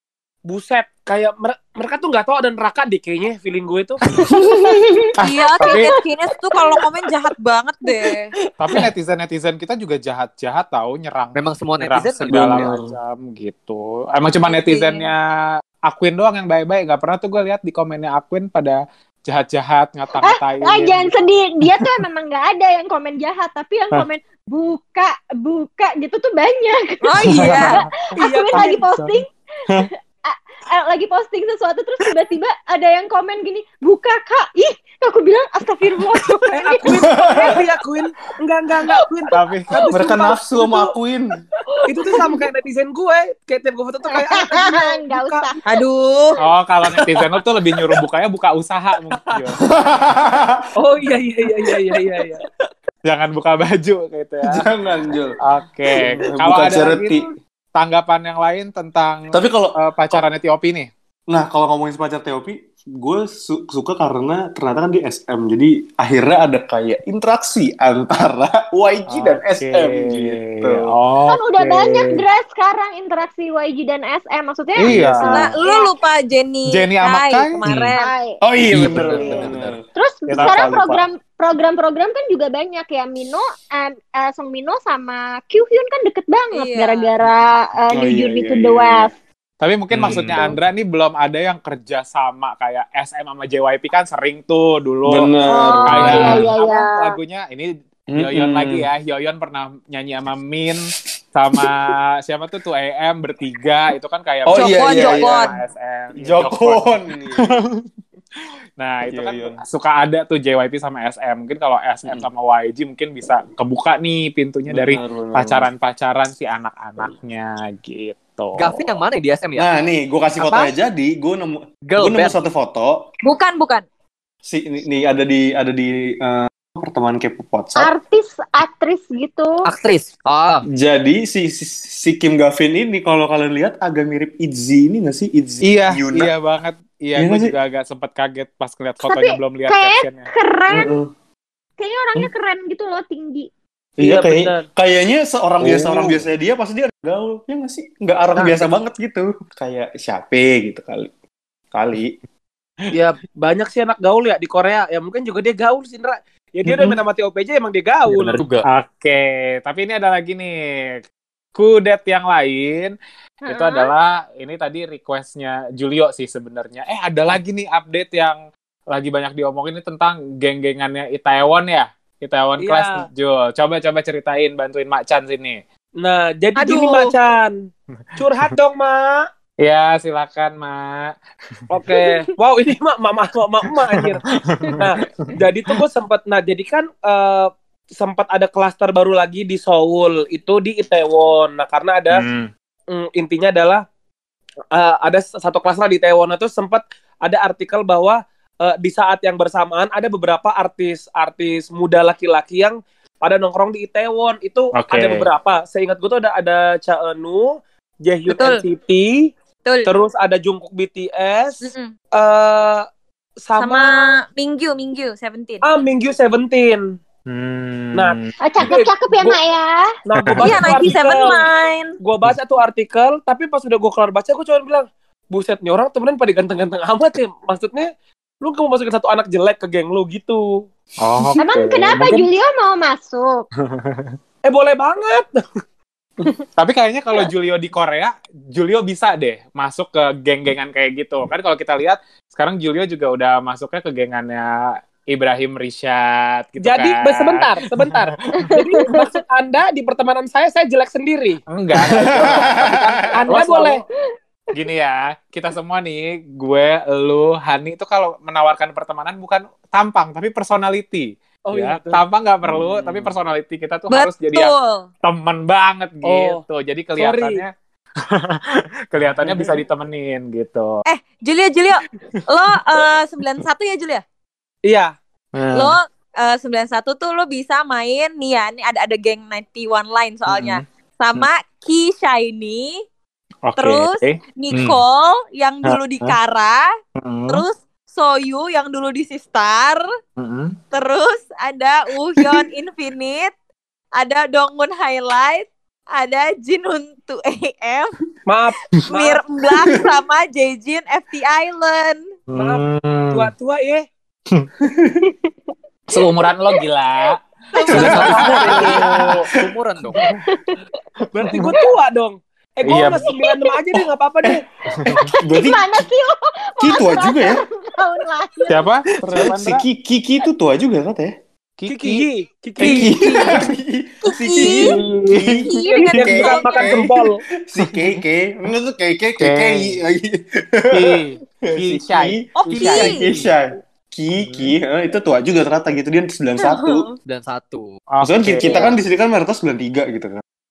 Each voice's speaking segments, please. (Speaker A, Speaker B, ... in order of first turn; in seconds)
Speaker A: 0.5-4.0, 28.2-28.9, 36.5-40.9, 41.9-45.5, 49.1-49.4, 50.8-52.4, 144.0-144.7, 152.9-158.4, 172.6-173.0, 176.0-177.6, 178.2-179.3, 181.7-184.2, 184.8-192.2, 192.9-193.8, 194.7-209.3, 209.9-212.8, 213.4-214.1, 215.6-216.8, 218.0-219.4, 220.1-221.4, 222.0-227.9, 228.4-230.6, 234.4-235.4, 246.6-253.8, 261.5-263.0, 266.0-266.4, 267.0-267.4, 269.2-269.6, 274.7-274.9, 298.3-299.2, 302.4-303.8, 311.1-314.4, 321.7-323.5, 324.4-327.2, 332.5-332.9
Speaker B: 4.2-4.9, 8.7-8.9, 12.3-12.9, 36.9-37.6, 39.9-41.4, 49.7-50.6, 54.5-55.4, 55.9-57.3, 59.3-60.2, 61.3-70.9, 74.9-75.2, 78.4-79.8, 80.3-81.0, 87.9-89.1, 89.9-90.6, 95.1-96.5, 98.1-98.9, 104.5-105.6, 106.2-107.6, 109.1-109.6, 114.7-115.7, 119.6-123.0, 124.5-127.9, 130.7-136.3, 137.2-137.5, 140.7-141.1, 144.0-151.1, 151.7-152.2, 156.7-157.0, 251.8-252.8, 304.6-305.0, 307.7-309.1, 314.3-315.9, 316.6-317.4, 319.0-321.1, 322.6-336.9, 338.0-340.2
Speaker C: 4.3-5.9, 20.2-29.3, 30.3-37.5, 41.8-42.2, 44.1-45.6, 71.3-75.9, 78.0-78.4, 80.0-89.1, 95.5-97.2, 127.8-129.7, 139.0-140.9, 141.8-143.5, 163.5-163.9, 181.9-182.2, 218.4-219.9, 231.4-233.4, 248.4-249.1, 253.6-253.8, 305.1-305.5, 307.6-308.8, 310.0-310.6, 313.0-313.6, 314.9-318.7, 338.5-338.7
Speaker D: 5.2-8.3, 14.4-15.1, 27.0-27.8, 45.7-46.4, 75.3-78.1, 86.5-87.1, 104.5-105.5, 123.2-123.8, 176.6-177.1, 208.3-208.6, 209.7-209.9, 211.6-211.9, 213.6-215.6, 220.4-221.9, 263.9-264.9, 270.9-274.0, 275.6-282.8, 283.6-286.7, 287.3-289.8, 290.7-293.3, 294.0-297.9, 298.9-302.1, 324.0-324.8, 325.5-326.8, 332.4-333.1
Speaker E: 5.2-6.0, 8.6-15.3, 15.9-21.2, 27.3-29.1, 39.3-39.8, 46.4-49.6, 53.1-54.7, 55.4-57.2, 57.8-60.9, 69.1-72.2, 74.8-75.5, 76.7-77.9, 78.7-79.5, 80.3-80.6, 89.6-95.3, 95.9-106.8, 107.4-107.7, 108.8-118.9, 135.6-140.3, 158.7-160.5, 161.6-175.6, 179.6-181.1, 183.9-185.4, 192.1-192.5, 204.7-205.3, 217.3-218.3, 220.2-220.9, 231.0-232.3, 233.7-234.2, 236.6-248.6, 251.5-252.7, 253.3-253.7, 254.5-267.5, 268.1-270.8, 275.3-275.8, 280.3-280.6, 283.4-284.7, 285.6-286.2, 287.0-287.5, 290.2-290.6, 302.3-303.3, 305.9-309.1, 312.6-313.1, 314.7-315.1, 318.5-319.6, 321.6-322.1, 322.6-323.2, 327.7-328.0, 329.2-329.8, 330.7-333.2, 334.1-334.6, 337.9-338.7
Speaker F: 11.3-12.8, 79.0-79.8, 90.0-90.4, 118.6-119.7, 120.4-120.7, 121.9-122.4, 129.7-130.7, 158.1-158.7, 307.7-310.0, 337.1-337.8